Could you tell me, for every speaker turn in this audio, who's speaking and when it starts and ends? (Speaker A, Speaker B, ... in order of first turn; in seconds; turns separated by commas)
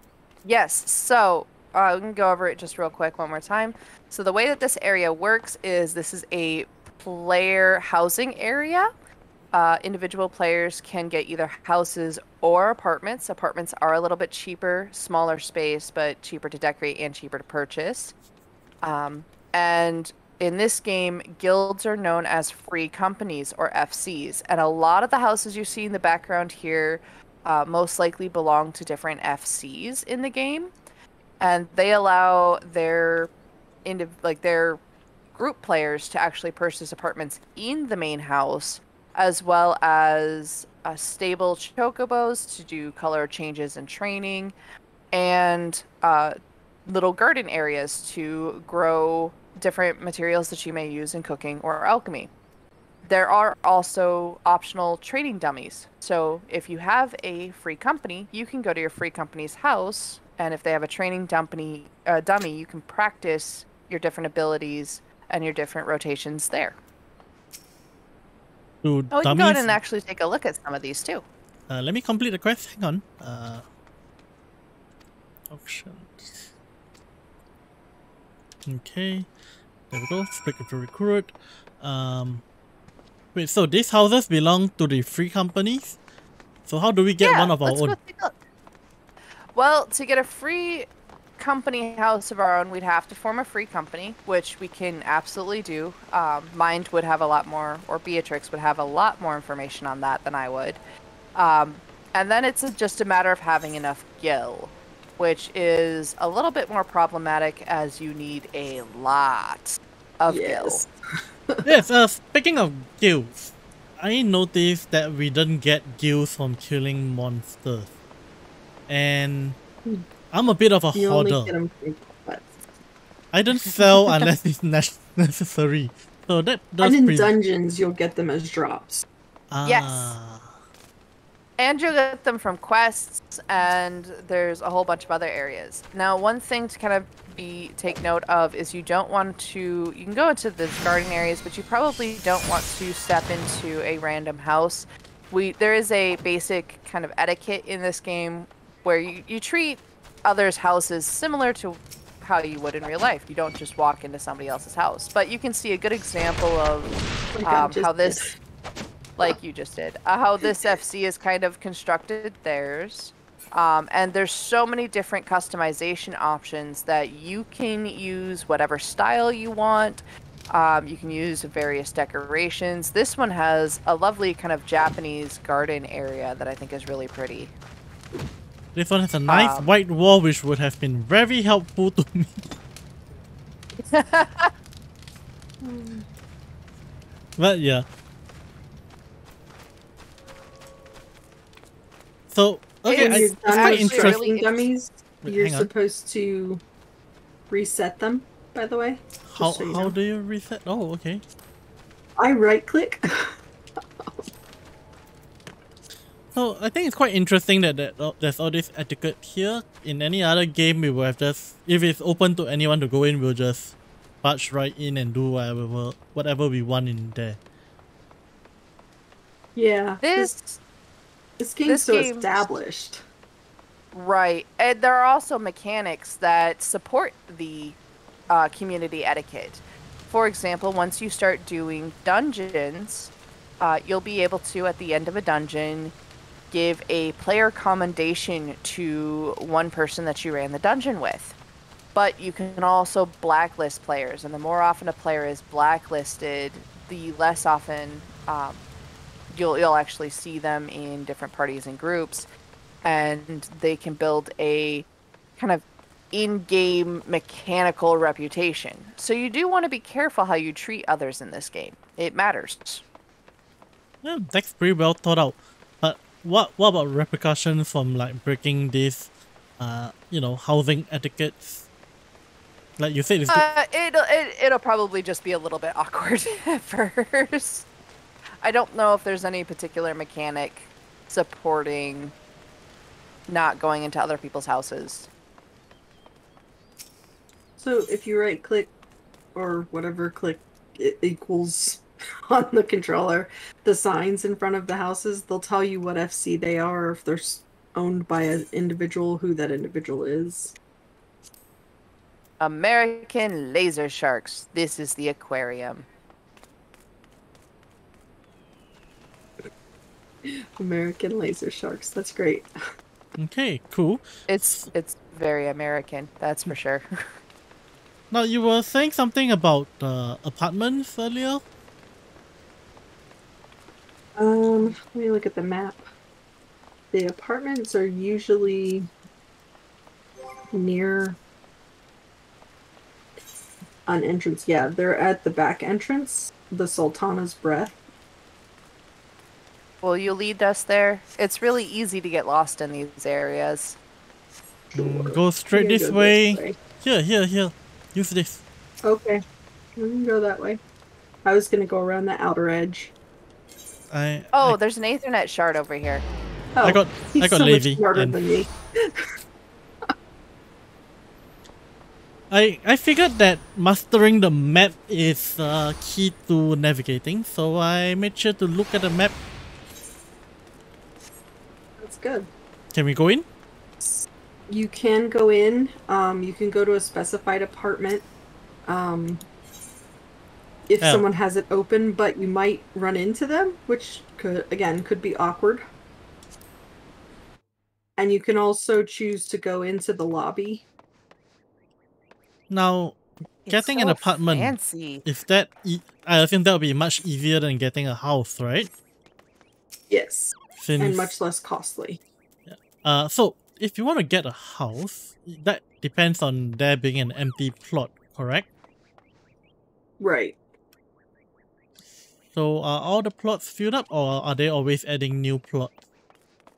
Speaker A: 0.4-8.9, Speaker A: 9.5-18.1, Speaker A: 18.8-30.7, Speaker A: 31.4-33.3, Speaker A: 33.8-34.8, Speaker A: 35.3-44.5, Speaker A: 45.1-52.3, Speaker A: 53.0-66.8, Speaker B: 68.8-69.8, Speaker A: 69.1-71.2, Speaker B: 71.7-73.6, Speaker B: 75.5-76.5, Speaker B: 78.7-79.3, Speaker B: 79.9-82.4, Speaker B: 83.3-86.0, Speaker B: 86.7-88.0, Speaker A: 87.2-88.3, Speaker A: 89.5-100.8, Speaker A: 101.3-110.8, Speaker C: 110.3-110.9, Speaker B: 111.6-117.9, Speaker B: 118.9-119.6, Speaker B: 120.3-121.5, Speaker C: 120.9-122.5, Speaker B: 123.3-127.4, Speaker C: 126.8-129.1, Speaker B: 129.5-130.6, Speaker A: 129.6-130.1, Speaker A: 131.6-158.3, Speaker C: 157.3-158.4, Speaker A: 159.2-177.5, Speaker C: 160.5-160.7, Speaker B: 178.7-182.5, Speaker A: 179.3-179.7, Speaker A: 183.8-184.5, Speaker C: 185.6-186.0, Speaker B: 187.4-187.8, Speaker B: 192.3-194.2, Speaker A: 192.8-194.7, Speaker C: 192.9-196.6, Speaker B: 195.2-195.7, Speaker C: 197.5-199.9, Speaker B: 199.3-201.2, Speaker C: 202.2-203.4, Speaker C: 204.0-204.2, Speaker B: 206.3-217.4, Speaker C: 219.5-220.3, Speaker A: 220.0-220.6, Speaker C: 221.4-223.0, Speaker A: 221.6-222.4, Speaker A: 223.9-227.8, Speaker A: 228.3-235.9, Speaker A: 236.5-241.3, Speaker A: 241.9-248.7, Speaker A: 249.3-252.3, Speaker A: 252.8-262.8, Speaker B: 264.0-271.7, Speaker B: 272.8-273.5, Speaker A: 273.3-277.7, Speaker A: 278.4-282.1, Speaker A: 283.3-285.1, Speaker C: 287.6-288.7, Speaker C: 289.3-300.6, Speaker A: 302.4-305.9, Speaker C: 310.2-312.5, Speaker B: 313.2-314.7, Speaker A: 314.3-316.8, Speaker B: 318.1-321.4, Speaker C: 324.1-325.9, Speaker C: 326.9-328.9, Speaker C: 330.5-331.2, Speaker C: 333.9-337.8, Speaker A: 339.8-343.8, Speaker C: 344.7-346.6, Speaker B: 344.7-348.4, Speaker C: 348.8-349.2, Speaker C: 349.8-350.6, Speaker C: 351.2-352.9, Speaker B: 353.9-354.6, Speaker A: 354.3-356.0, Speaker C: 356.5-359.1, Speaker B: 356.6-358.1, Speaker B: 362.3-369.1, Speaker C: 371.8-372.3, Speaker B: 372.7-373.2, Speaker C: 373.8-378.1, Speaker C: 378.6-379.2, Speaker C: 380.7-385.6, Speaker C: 388.0-390.6, Speaker B: 392.5-393.0, Speaker A: 393.4-395.0, Speaker B: 393.5-398.7, Speaker C: 399.9-402.0, Speaker B: 400.6-401.2, Speaker B: 402.4-408.5, Speaker C: 410.0-410.4, Speaker B: 412.3-415.7